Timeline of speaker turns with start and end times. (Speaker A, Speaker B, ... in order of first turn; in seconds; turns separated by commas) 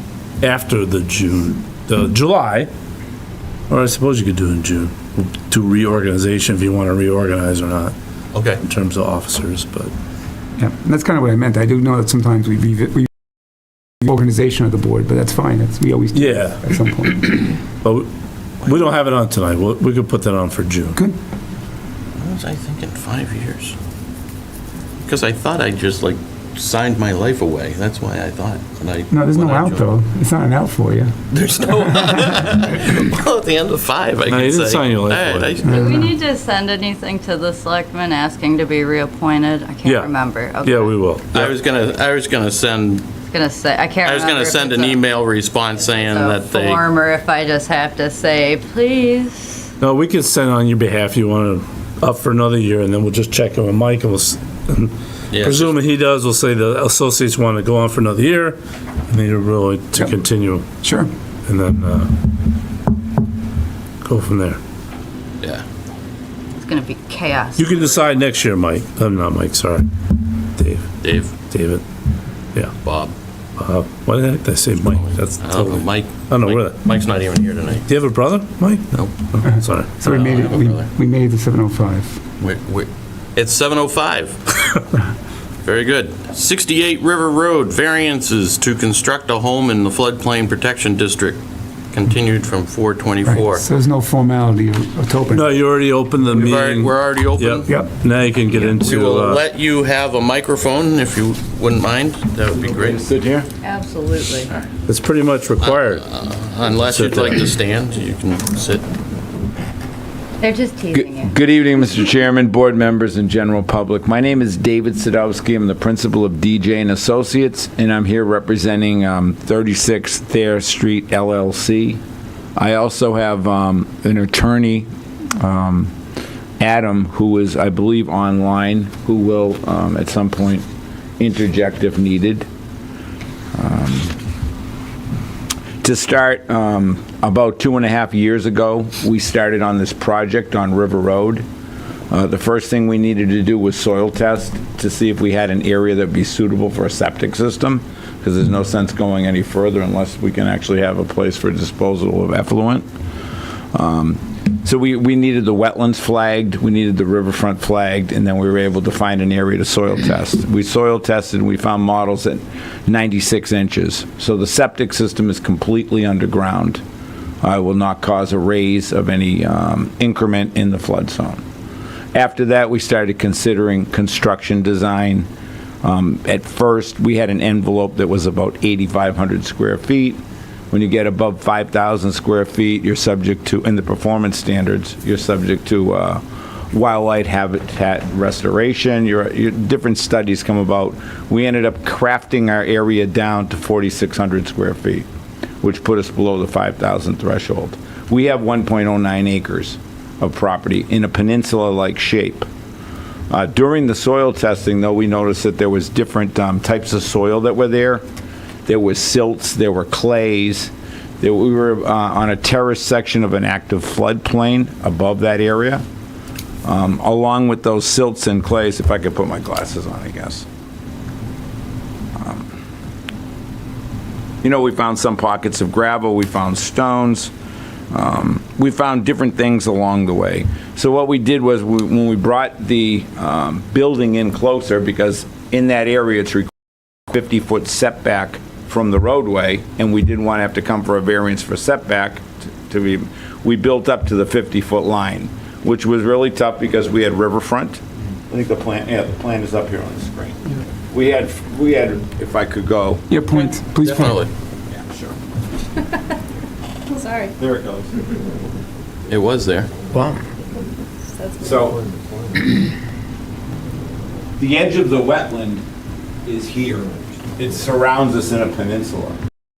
Speaker A: 0.4-2.7, Speaker A: 3.7-7.9, Speaker B: 8.3-8.6, Speaker A: 8.6-9.9, Speaker C: 10.6-13.1, Speaker C: 14.0-17.4, Speaker A: 16.1-16.6, Speaker A: 17.5-18.1, Speaker A: 18.6-21.0, Speaker B: 22.2-23.8, Speaker B: 25.1-29.9, Speaker C: 29.1-31.1, Speaker B: 31.3-36.1, Speaker A: 34.3-35.6, Speaker C: 35.6-36.1, Speaker D: 35.7-41.0, Speaker A: 39.9-41.5, Speaker B: 41.3-43.1, Speaker D: 43.3-45.0, Speaker B: 44.0-46.9, Speaker D: 45.8-49.7, Speaker A: 49.8-60.7, Speaker B: 55.3-55.8, Speaker C: 60.8-61.1, Speaker A: 61.5-62.3, Speaker A: 64.0-64.6, Speaker D: 66.6-68.2, Speaker A: 67.6-69.9, Speaker A: 70.5-71.8, Speaker B: 71.0-71.3, Speaker B: 72.8-73.1, Speaker A: 73.6-76.8, Speaker B: 74.9-78.0, Speaker A: 77.9-79.9, Speaker C: 79.5-82.2, Speaker B: 79.8-80.9, Speaker B: 82.4-84.5, Speaker B: 85.6-91.4, Speaker B: 91.9-93.7, Speaker C: 93.2-95.5, Speaker A: 95.3-99.4, Speaker B: 96.2-97.7, Speaker B: 98.5-103.0, Speaker E: 102.5-103.5, Speaker D: 103.6-104.5, Speaker A: 104.9-106.0, Speaker B: 105.6-108.9, Speaker A: 106.9-107.5, Speaker D: 110.4-111.3, Speaker E: 110.9-122.0, Speaker E: 122.6-124.9, Speaker E: 125.4-125.9, Speaker E: 126.6-130.7, Speaker E: 131.2-132.5, Speaker E: 133.6-134.2, Speaker E: 135.8-141.4, Speaker E: 142.1-152.9, Speaker E: 153.7-166.8, Speaker E: 167.4-171.4, Speaker E: 172.1-175.3, Speaker E: 175.8-180.2, Speaker E: 180.7-195.1, Speaker E: 195.6-202.5, Speaker E: 203.3-208.0, Speaker E: 208.7-215.8, Speaker E: 216.7-220.5, Speaker E: 222.2-222.6, Speaker E: 224.4-227.3, Speaker E: 227.9-236.5, Speaker E: 237.1-253.1, Speaker C: 253.1-254.2, Speaker B: 253.3-254.3, Speaker E: 254.7-255.2, Speaker E: 257.4-257.9, Speaker B: 259.1-259.7, Speaker E: 261.4-261.9, Speaker E: 264.4-265.6, Speaker E: 266.2-269.2